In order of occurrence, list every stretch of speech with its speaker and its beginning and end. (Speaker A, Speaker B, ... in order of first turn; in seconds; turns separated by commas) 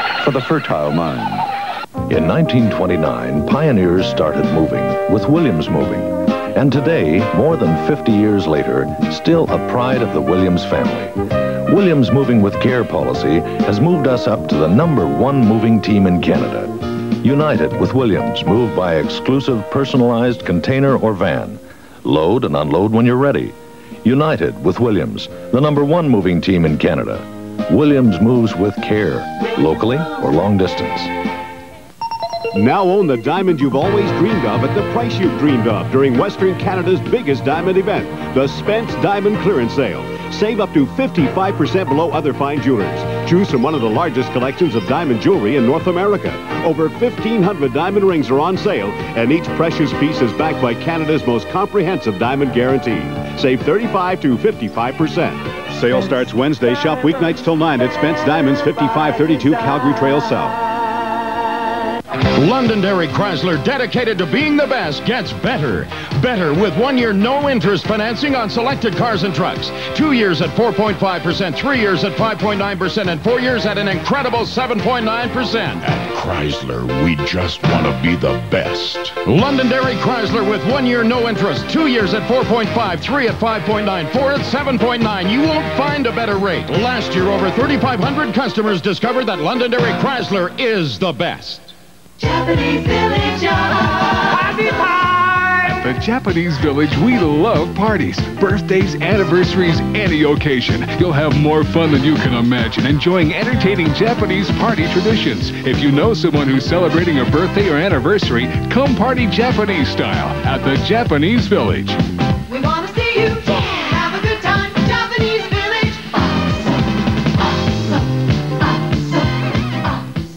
Speaker A: 0.2-1.4, Speaker A: 2.1-11.1, Speaker A: 11.7-31.1, Speaker B: 32.5-60.6, Speaker C: 62.3-75.9, Speaker D: 76.0-79.0, Speaker C: 79.1-91.7, Speaker E: 95.7-112.0, Speaker E: 112.9-113.7